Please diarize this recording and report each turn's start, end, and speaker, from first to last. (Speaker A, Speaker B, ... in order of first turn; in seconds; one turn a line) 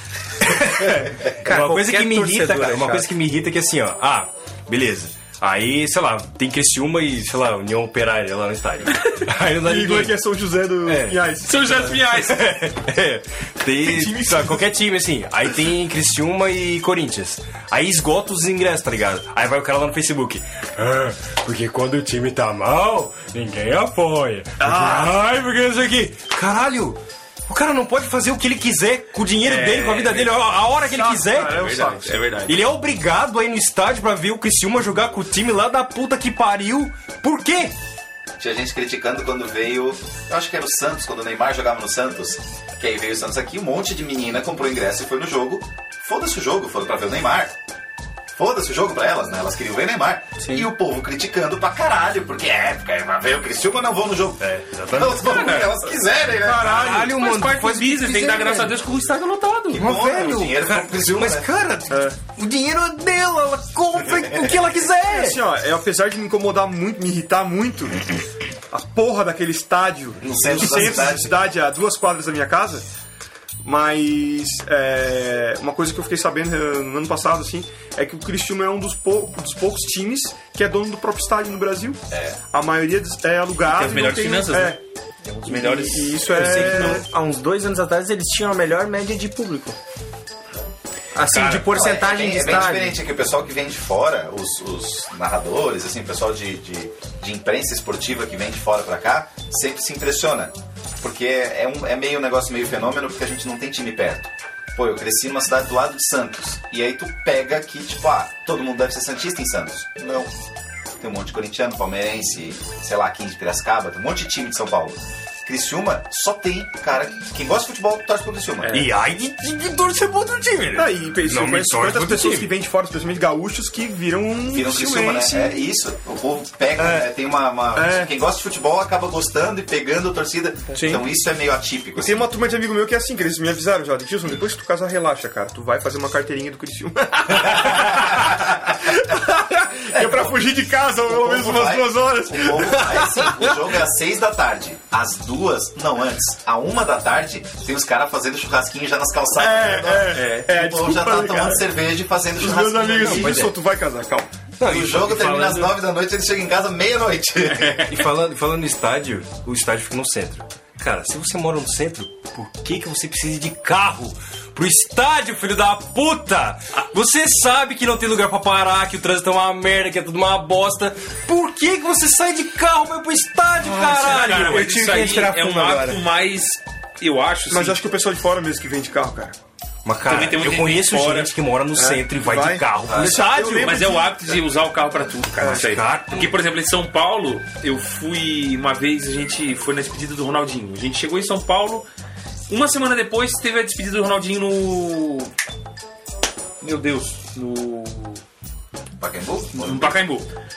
Speaker A: 0.4-10.2
Speaker B: 1.4-3.1
Speaker C: 9.6-12.0
Speaker A: 10.8-11.2
Speaker D: 11.5-12.4
Speaker A: 12.1-31.8
Speaker C: 13.8-14.7
Speaker C: 24.6-25.2
Speaker D: 29.4-30.4
Speaker D: 31.0-32.7
Speaker C: 31.0-32.2
Speaker A: 32.5-37.7
Speaker E: 38.4-47.6
Speaker E: 48.4-56.8
Speaker B: 50.4-50.7
Speaker A: 54.4-55.7
Speaker D: 55.3-55.8
Speaker C: 56.4-57.2
Speaker A: 56.6-58.8
Speaker D: 56.9-59.9
Speaker E: 59.7-61.5
Speaker A: 59.7-65.4
Speaker C: 61.9-62.2
Speaker E: 64.1-64.6
Speaker C: 65.0-68.0
Speaker C: 68.7-72.8
Speaker E: 70.2-71.3
Speaker A: 70.6-71.0
Speaker C: 73.6-82.0
Speaker E: 82.1-82.4
Speaker C: 82.5-84.8
Speaker D: 83.7-86.9
Speaker B: 85.5-89.8
Speaker C: 85.7-87.0
Speaker B: 91.2-93.0
Speaker D: 91.3-91.7
Speaker E: 91.6-110.3
Speaker E: 111.0-118.7
Speaker D: 118.6-118.9
Speaker A: 118.7-122.5
Speaker C: 120.7-125.6
Speaker E: 124.5-132.2
Speaker C: 126.8-127.1
Speaker C: 127.7-128.1
Speaker C: 130.7-131.1
Speaker C: 132.0-143.6
Speaker E: 137.6-138.5
Speaker E: 140.0-140.3
Speaker E: 141.1-153.5
Speaker C: 149.4-151.7
Speaker D: 150.1-150.5
Speaker C: 152.4-154.3
Speaker A: 153.0-153.5
Speaker A: 154.6-155.7
Speaker E: 154.7-157.8
Speaker D: 157.5-158.1
Speaker A: 157.8-174.7
Speaker B: 173.7-176.0
Speaker D: 173.9-177.8
Speaker C: 177.5-179.3
Speaker A: 179.8-183.9
Speaker D: 180.1-181.3
Speaker C: 181.8-184.4
Speaker E: 182.9-183.2
Speaker D: 183.6-191.9
Speaker A: 185.4-186.4
Speaker D: 192.5-195.3
Speaker D: 196.6-198.2
Speaker E: 199.0-200.0
Speaker D: 199.6-200.3